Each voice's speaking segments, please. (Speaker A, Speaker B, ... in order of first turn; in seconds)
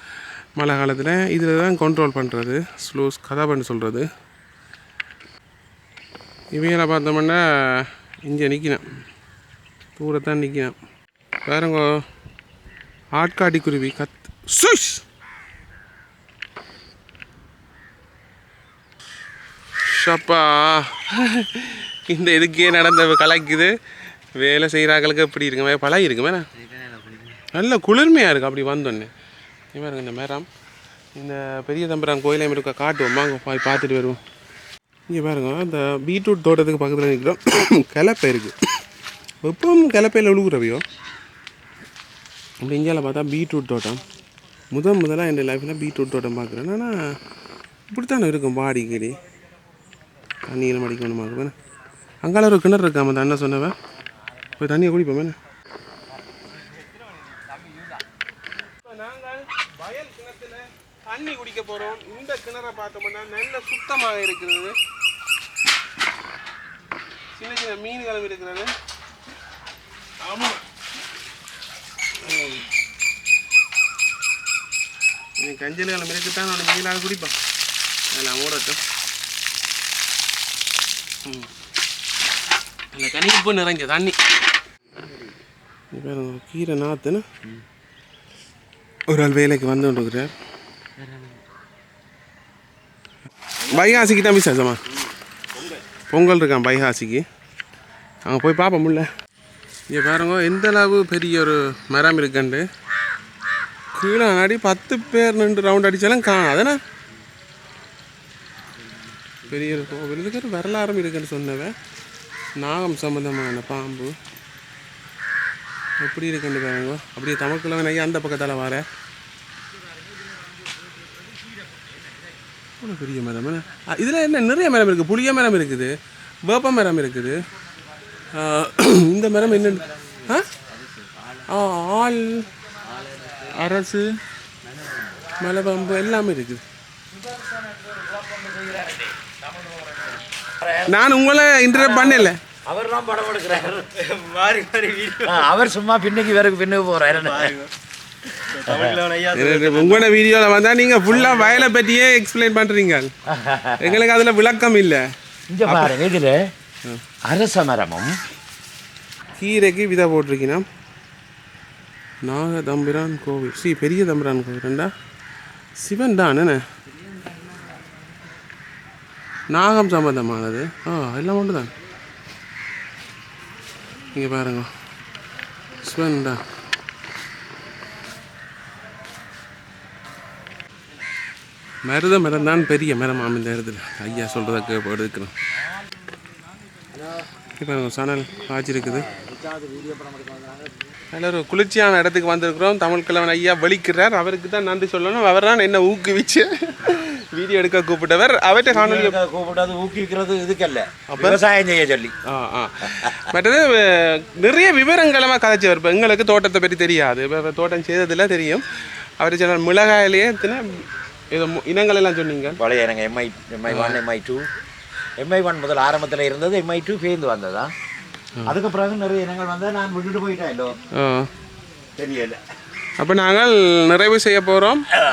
Speaker A: 0.6-4.1, 6.5-8.8, 10.0-10.7, 11.5-11.9, 13.2-15.0, 19.8-23.7, 24.4-26.5, 27.5-29.1, 29.7-30.5, 31.2-34.2, 35.1-38.8, 39.4-40.8, 42.6-44.0, 44.7-47.0, 47.9-49.2, 50.5-51.5, 52.2-53.8, 54.6-55.4, 58.8-64.8, 67.4-68.7, 70.2-70.6, 72.2-72.7, 75.4-77.3, 78.1-78.8, 82.9-84.2, 85.9-87.2, 89.1-90.3, 93.7-94.8, 96.1-97.2, 98.3-99.1, 99.9-102.7, 104.0-106.8, 109.5-111.8, 112.6-114.2, 116.0-118.8, 122.8-126.0, 126.5-127.4, 128.3-130.5, 131.5-132.5, 133.5-134.2, 135.4-136.6, 140.9-142.4, 149.3-153.1, 153.8-155.0, 155.7-155.9, 159.4-160.6, 162.2-164.9, 165.8-166.6, 169.5-171.7, 174.1-174.7, 175.8-176.4, 181.9-185.3, 187.6-189.1, 191.1-199.2, 201.1-201.4, 202.3-208.6, 209.2-212.6, 213.7-214.0, 220.9-221.3, 223.0-224.8
Speaker B: 93.6-94.2, 95.0-95.8, 132.9-133.5, 143.9-145.7, 147.1-147.7, 148.4-150.1, 151.1-151.7
Speaker C: 137.1-140.9, 141.7-143.9, 145.2-147.5, 148.6-149.0, 153.3-154.0, 155.5-156.5, 157.2-158.1, 198.7-202.1, 212.6-214.4, 215.2-217.7, 218.5-220.8, 222.0-222.4